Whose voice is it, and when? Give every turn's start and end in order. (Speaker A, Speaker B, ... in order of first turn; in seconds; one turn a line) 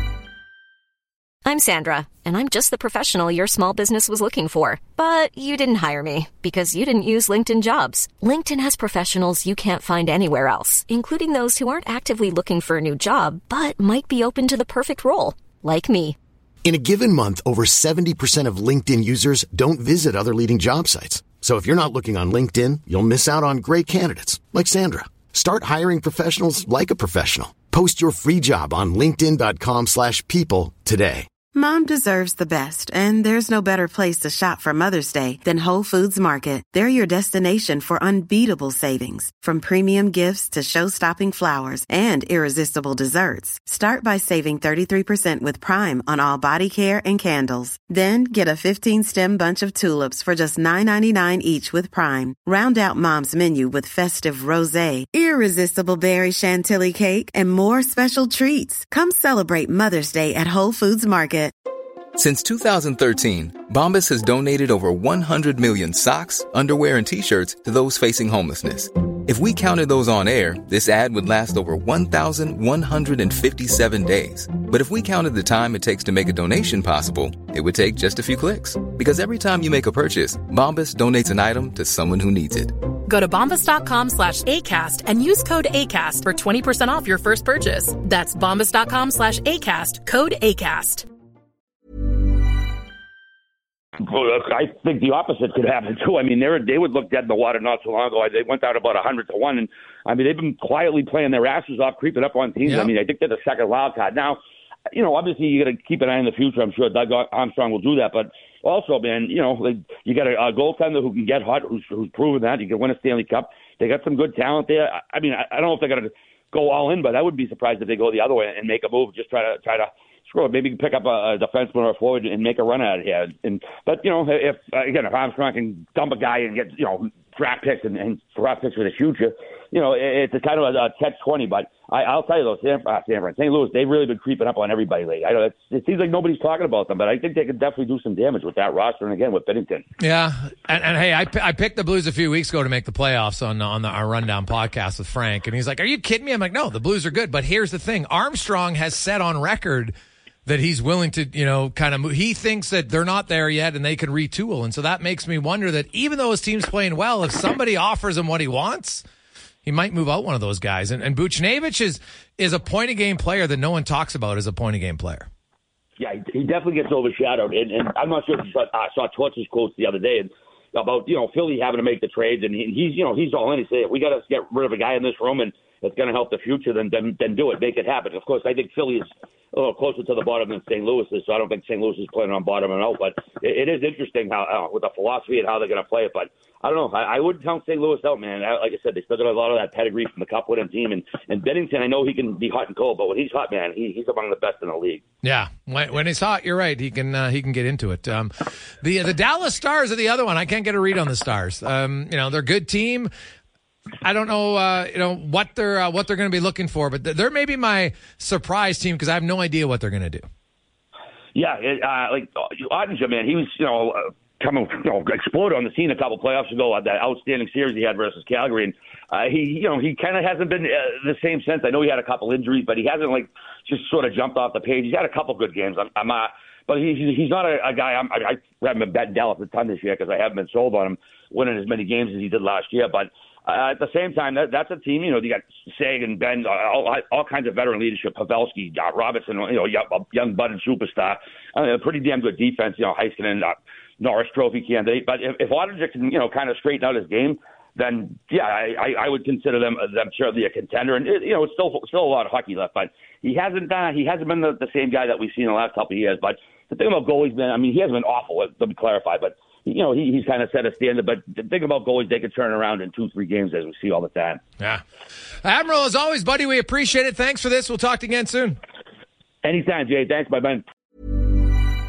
Speaker A: 1.4-16.1
Speaker B: 16.6-31.3
Speaker C: 31.5-61.5
Speaker D: 62.1-82.7
Speaker E: 83.0-91.1
Speaker F: 94.0-104.4
Speaker G: 102.6-102.9
Speaker F: 104.9-139.8
Speaker G: 140.0-149.9
Speaker G: 150.4-159.0
Speaker G: 159.6-165.3
Speaker F: 166.0-195.0
Speaker G: 195.2-203.1
Speaker G: 204.0-210.2
Speaker F: 211.3-264.4
Speaker G: 265.4-268.6
Speaker F: 269.4-270.6